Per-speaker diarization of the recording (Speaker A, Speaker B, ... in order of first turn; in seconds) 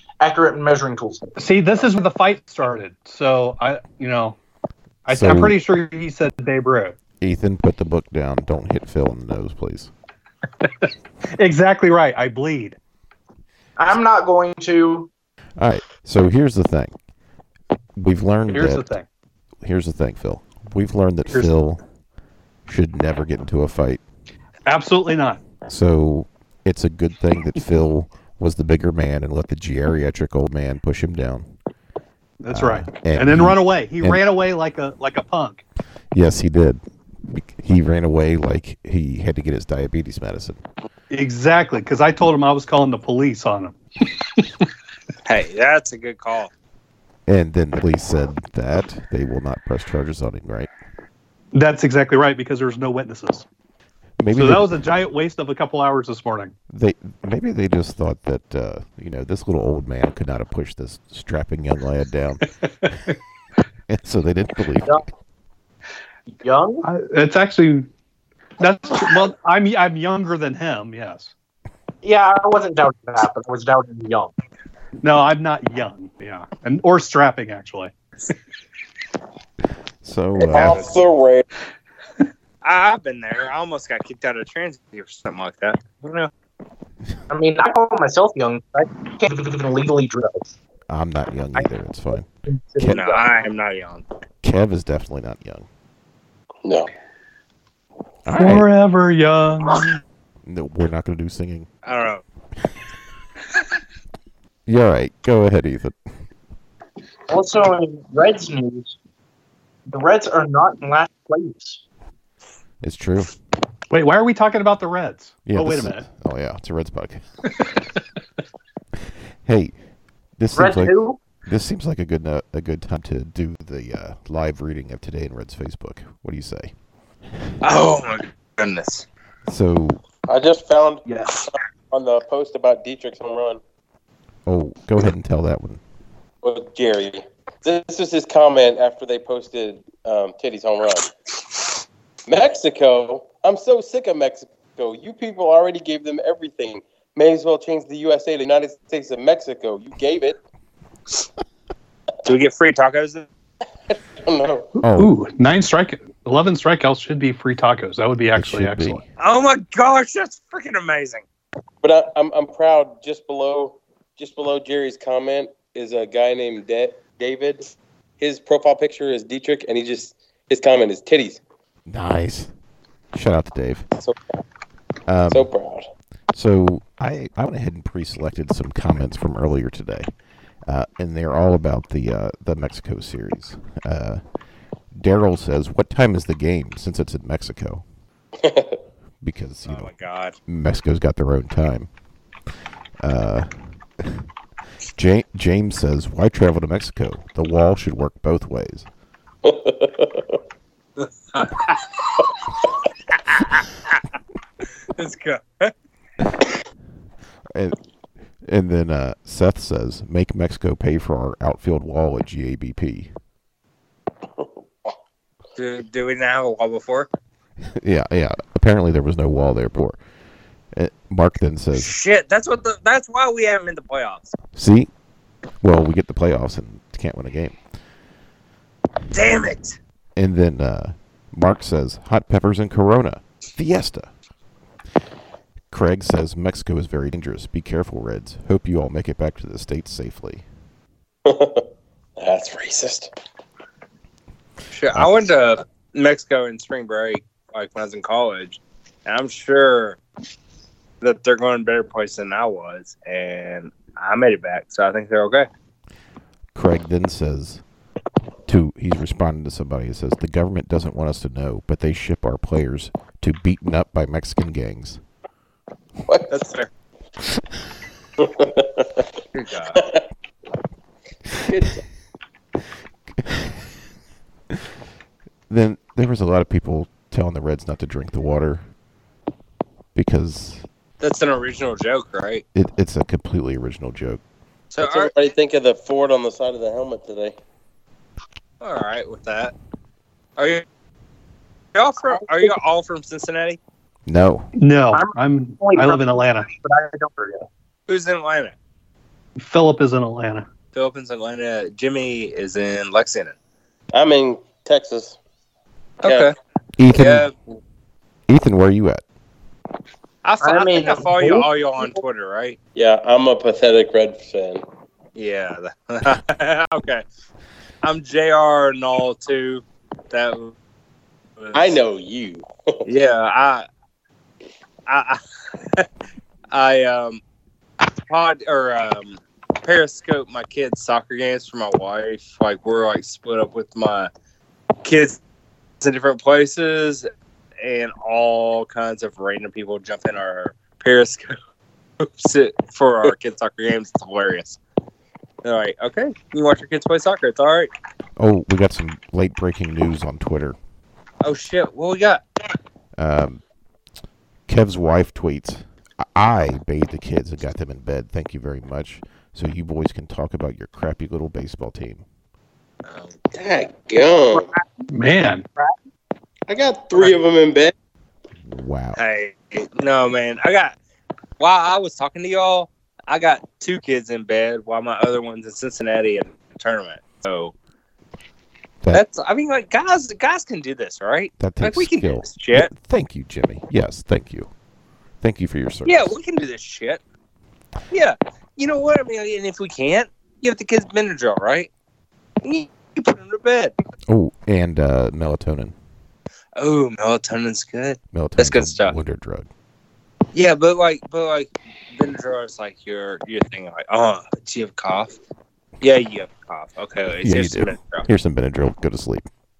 Speaker A: 0.2-1.3, 13.8-15.1, 66.4-66.9, 72.0-74.3, 87.3-90.5, 92.5-93.3, 107.3-109.0, 109.9-111.8, 120.5-121.2, 292.2-292.5, 294.9-297.5, 310.4-311.9
Speaker B: 1.4-4.4, 5.0-7.0, 10.6-12.8, 18.5-19.1, 24.7-25.4, 32.4-35.6, 41.1-43.8, 44.4-44.7, 51.5-53.5, 54.3-56.5, 66.8-67.9, 68.6-71.3, 75.0-77.9, 98.3-100.0, 113.9-116.0, 154.9-159.0, 294.6-296.5, 299.4-300.5, 364.9-365.4
Speaker C: 5.1-5.6, 7.2-9.9, 15.6-16.9, 18.0-18.9, 19.6-21.8, 22.7-24.0, 25.7-31.5, 32.5-34.2, 36.1-40.6, 47.3-50.7, 54.2-54.7, 56.7-62.5, 63.9-65.0, 80.0-80.9, 90.9-93.0, 94.4-95.7, 98.3-98.7, 100.5-101.7, 104.7-106.0, 112.8-113.3, 115.5-117.2, 119.5-119.8, 120.4-126.7, 129.5-130.0, 134.5-135.8, 154.8-155.1, 158.4-159.0, 171.9-172.5, 173.1-173.9, 175.1-175.5, 176.3-180.1, 180.7-184.2, 184.9-187.8, 189.2-189.9, 190.5-191.9, 193.0-194.2, 195.0-198.9, 207.5-207.8, 208.4-213.1, 217.8-220.0, 220.7-222.0, 224.6-224.9, 225.6-227.6, 230.2-234.1, 235.7-240.4, 256.6-257.6, 258.5-265.0, 275.5-278.6, 279.9-280.6, 282.6-284.2, 294.1-294.5, 306.8-307.3, 308.3-309.0, 348.2-350.6, 353.0-353.4, 354.5-362.0, 368.5-369.0, 381.4-384.5, 385.2-386.2, 394.1-395.8, 398.1-399.5, 407.2-409.3
Speaker D: 45.3-46.5, 80.5-80.9, 82.6-86.3, 92.9-94.0, 101.8-102.2, 127.6-129.1, 152.2-153.3, 159.2-161.2, 189.7-190.4, 201.0-201.8, 203.2-204.0, 204.9-205.7, 215.6-217.1, 221.8-224.4, 229.1-229.8, 244.7-250.0, 251.0-255.5, 266.3-266.7, 269.4-269.8, 281.0-282.4, 284.7-285.1, 288.6-289.5, 290.4-290.6, 291.8-293.6, 297.9-298.6, 300.7-303.4, 306.0-306.4, 306.9-307.3, 310.2-312.6, 315.2-317.0, 317.8-320.5, 321.4-321.8, 322.9-323.7, 324.9-325.2, 326.5-327.2, 328.1-334.1, 334.8-335.2, 335.8-337.1, 337.6-341.4, 342.0-344.6, 345.4-347.7, 351.2-352.2, 362.9-363.1, 369.0-370.8, 371.4-377.5, 378.9-382.7, 385.9-387.0, 387.9-391.7, 392.4-393.7, 396.6-398.9, 400.3-405.2, 405.8-408.1
Speaker E: 80.4-81.5, 130.3-133.6, 136.4-141.1, 142.3-150.4, 153.9-154.7, 161.8-171.4, 175.3-175.9, 188.4-188.8, 199.4-200.4, 214.4-214.9, 241.2-241.7, 242.2-243.1, 266.1-266.3, 268.2-269.1, 269.8-270.0, 271.5-271.8, 284.8-287.4, 303.9-305.2, 306.0-306.3, 312.8-314.6, 321.5-322.9, 363.3-364.5, 366.5-367.7